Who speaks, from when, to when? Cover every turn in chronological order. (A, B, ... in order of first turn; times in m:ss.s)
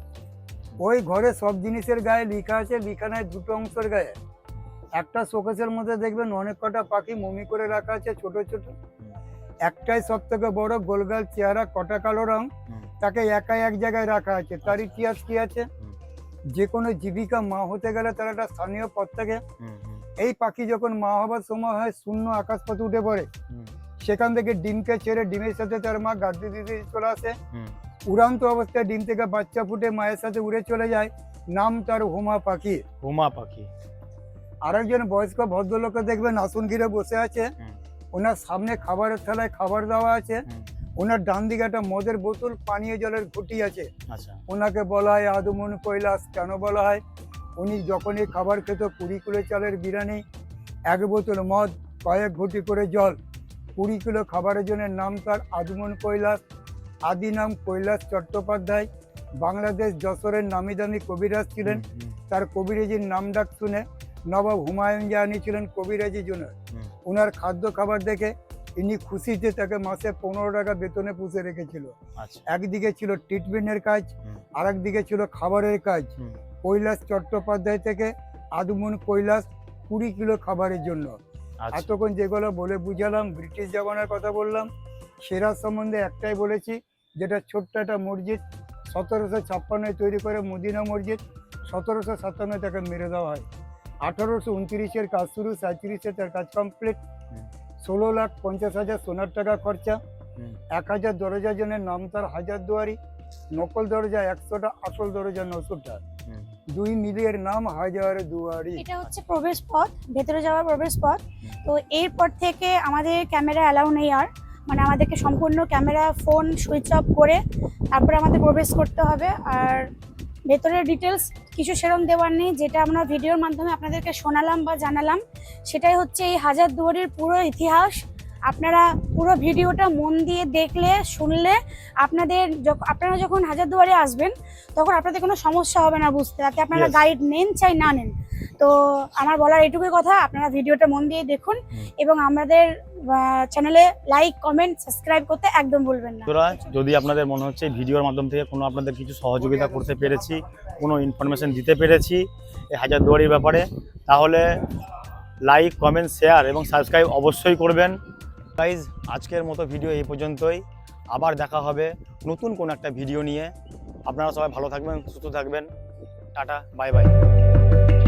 0:00.8-0:04.2 A
0:05.0-0:08.8 A
0:09.6-0:12.5 A
0:13.0-0:15.7 A
0:14.6-0:15.1 B
0:16.5-0:19.4 A
0:19.6-0:20.0 B
0:20.2-0:23.3 A
0:24.0-0:27.4 A
0:28.1-0:32.8 A
0:33.0-0:33.7 B
0:34.6-0:37.5 A
0:38.1-0:40.4 A
0:41.0-0:43.9 A
0:44.1-0:44.4 B
0:44.5-0:47.0 A
0:47.6-0:50.2 A
0:50.9-0:53.2 A
0:53.8-0:56.4 A
0:57.1-0:58.9 A
0:59.4-1:06.5 A
1:01.6-1:02.2 B
1:07.0-1:11.9 A
1:12.2-1:12.5 B
1:12.5-1:21.2 A
1:21.6-1:21.9 B
1:21.7-1:24.7 A
1:25.2-1:33.5 A
1:34.0-1:37.0 A
1:37.8-1:40.0 A
1:40.7-1:43.0 A
1:43.5-1:46.0 A
1:46.7-1:48.8 A
1:48.8-1:57.4 C
1:57.9-1:59.9 C
2:00.5-2:26.6 C
2:16.7-2:17.0 B
2:26.3-2:34.4 B
2:35.4-2:38.0 B
2:38.6-2:43.5 B
2:44.1-2:45.7 B
2:46.3-2:47.1 B